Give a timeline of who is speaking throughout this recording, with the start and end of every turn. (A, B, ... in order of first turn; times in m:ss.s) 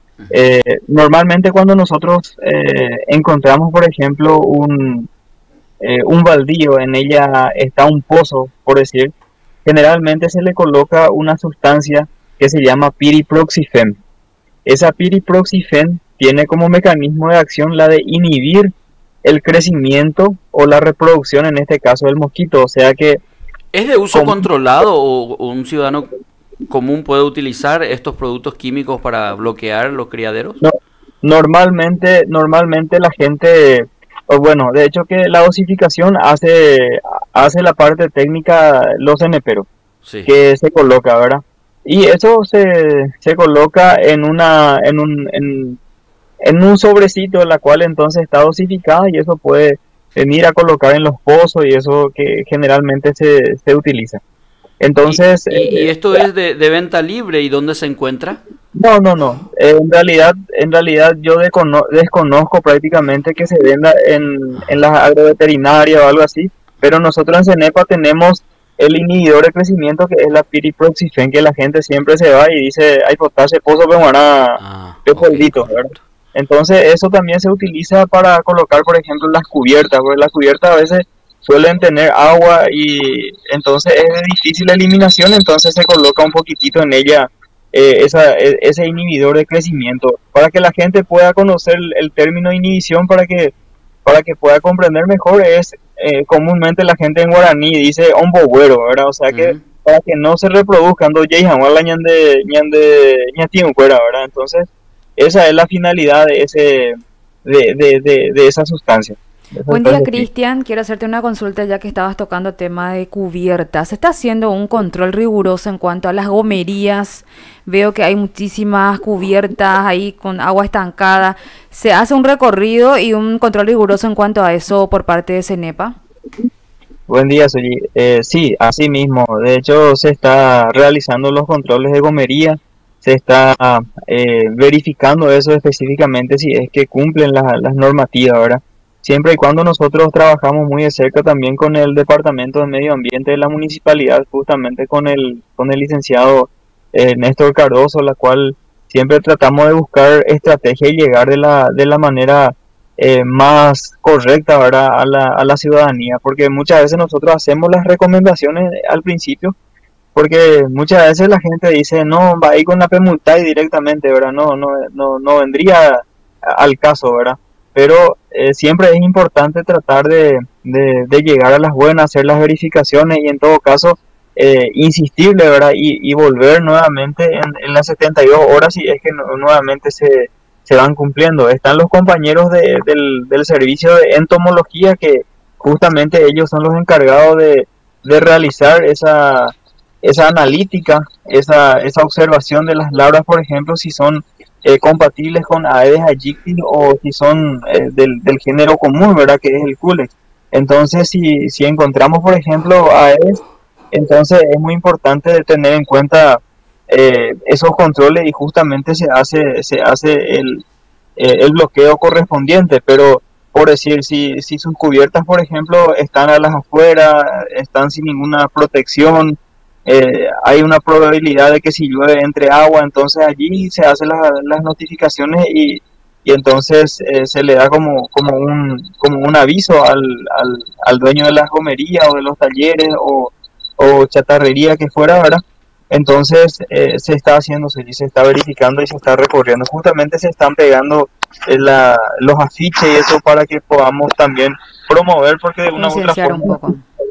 0:00.3-0:05.1 A
0:05.8-0:09.1 A
0:09.6-0:14.0 A
0:14.6-0:18.7 A
0:19.2-0:23.2 A
0:23.7-0:26.1 B
0:24.1-0:24.4 A
0:26.7-0:30.6 B
0:30.6-0:39.7 A
0:40.0-0:40.3 B
0:40.2-0:45.8 A
0:46.4-0:54.2 A
0:54.8-0:56.2 A
0:55.1-0:58.4 B
0:58.8-1:33.5 A
1:14.6-1:15.8 B
1:34.0-1:50.2 A
1:39.3-1:39.6 B
1:49.7-2:05.9 C
2:07.1-2:39.5 A
2:40.1-3:23.4 A
3:23.9-3:30.6 A
3:31.2-4:06.7 A
4:05.8-4:06.8 C